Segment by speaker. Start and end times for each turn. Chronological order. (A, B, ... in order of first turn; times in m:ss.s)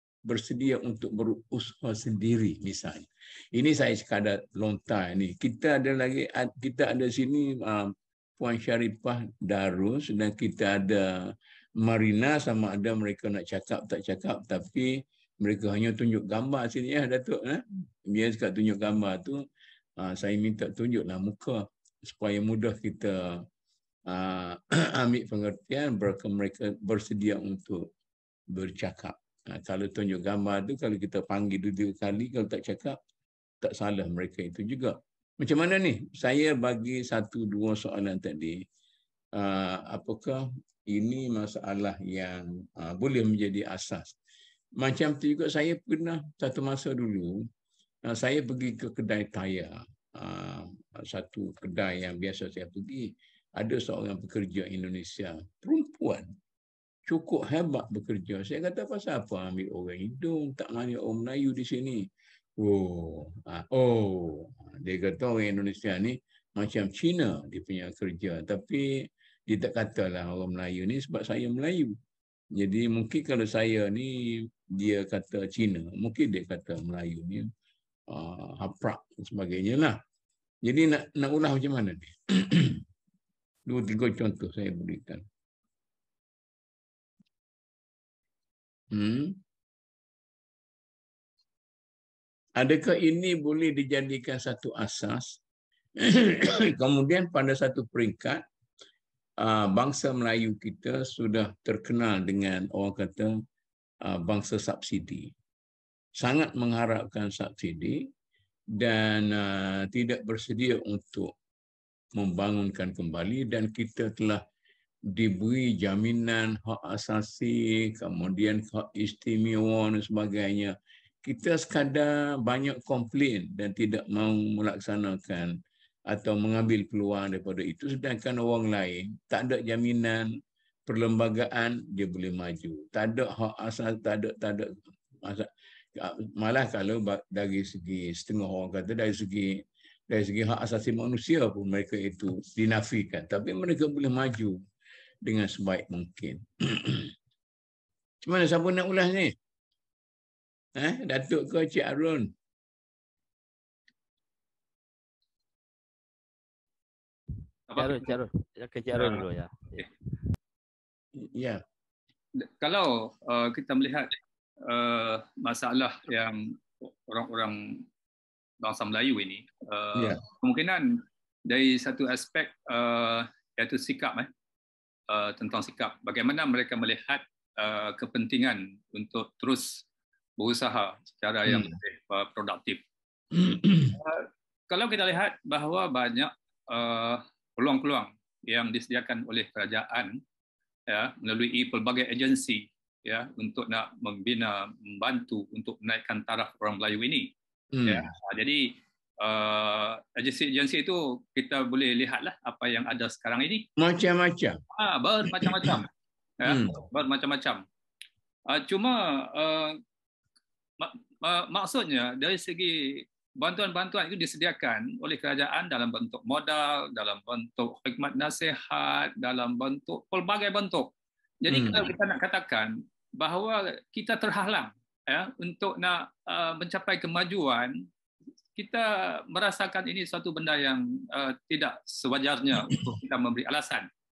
0:00.2-0:19.4 A
0:20.0-0:23.5 A
0:24.1-0:27.9 A
0:28.5-0:33.0 A
0:33.6-0:38.6 A
0:39.4-0:44.2 A
0:44.8-0:47.4 A
0:48.1-0:56.3 A
0:57.1-1:11.9 A
1:12.6-1:17.5 A
1:18.1-1:20.0 A
1:20.6-1:22.8 A
1:23.7-1:25.3 A
1:28.9-1:29.4 A
1:32.6-1:35.4 A
1:36.0-1:38.4 A
1:39.4-1:43.3 A
1:44.0-1:45.3 A
1:46.2-1:48.1 A
1:48.8-1:51.3 A
1:52.2-1:54.4 A
1:55.1-2:05.5 A
2:06.1-2:10.3 A
2:10.9-2:24.6 A
2:25.2-2:27.1 A
2:28.3-2:29.3 A
2:30.8-2:32.3 A
2:37.7-2:38.2 B
2:37.8-2:39.9 C
2:39.0-2:39.2 B
2:41.2-2:41.6 A
2:42.4-2:47.8 B
2:48.6-2:54.3 B
2:50.0-2:50.2 A
2:55.1-2:59.8 B
3:00.4-3:02.8 B
3:01.5-3:01.8 A
3:03.3-3:04.0 A
3:03.9-3:10.2 B
3:10.9-3:17.3 B
3:17.7-3:18.1 A
3:17.9-3:23.7 B
3:23.8-3:24.6 A
3:24.7-3:25.9 B
3:25.3-3:25.8 A
3:26.4-3:27.6 B
3:26.4-3:26.8 A
3:28.5-3:29.8 B
3:30.8-3:47.8 B
3:41.5-3:41.9 A
3:48.6-3:53.9 B